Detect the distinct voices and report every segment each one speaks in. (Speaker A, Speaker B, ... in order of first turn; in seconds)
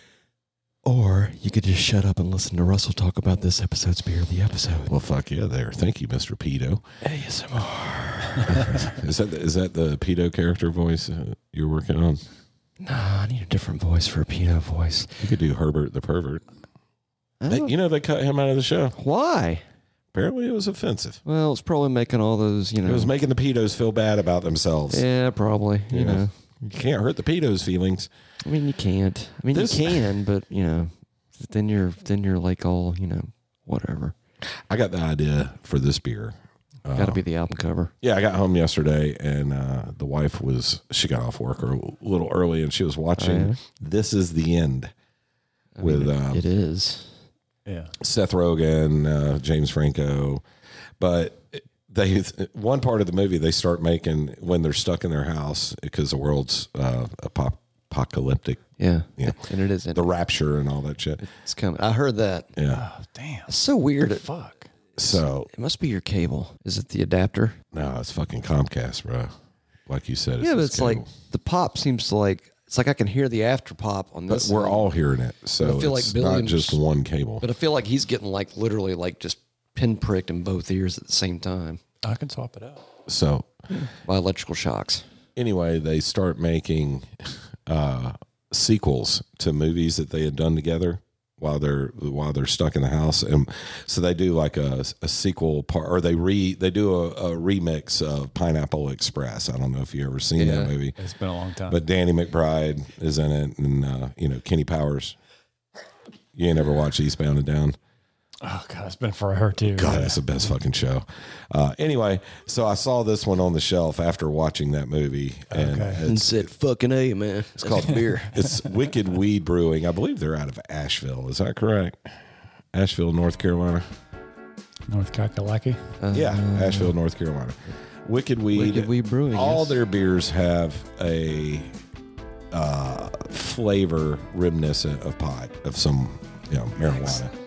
Speaker A: 0.8-4.9, 7.0-8.8, 12.8-15.2, 17.4-17.7, 18.9-19.6, 21.2-23.1, 24.9-26.3, 28.4-34.1, 36.9-37.9, 43.2-43.6, 45.7-47.2, 58.8-60.1, 61.2-62.5, 63.5-64.2, 65.0-67.6, 70.4-74.9, 75.6-76.8, 77.4-81.8, 83.8-85.0, 100.3-100.7, 116.0-118.3, 126.0-126.9, 128.5-129.8
Speaker B: 4.9-6.8, 8.5-12.2, 15.2-16.4, 17.5-18.9, 20.1-21.2, 22.8-25.0, 25.9-28.1, 29.5-30.0, 34.5-37.2, 38.0-44.9, 45.8-46.4, 48.0-50.4, 51.0-58.6, 59.9-61.2, 62.5-62.9, 65.0-65.5, 67.7-69.3, 69.9-71.1, 74.3-77.4, 83.1-83.5, 85.3-101.0, 101.7-105.2, 106.3-107.8, 109.7-116.5, 117.6-122.1, 122.7-123.9, 126.1-131.7, 132.5-137.3
Speaker C: 47.6-47.9, 62.7-64.7, 82.0-82.8, 101.0-101.8, 108.4-110.2, 115.5-116.0, 124.9-125.8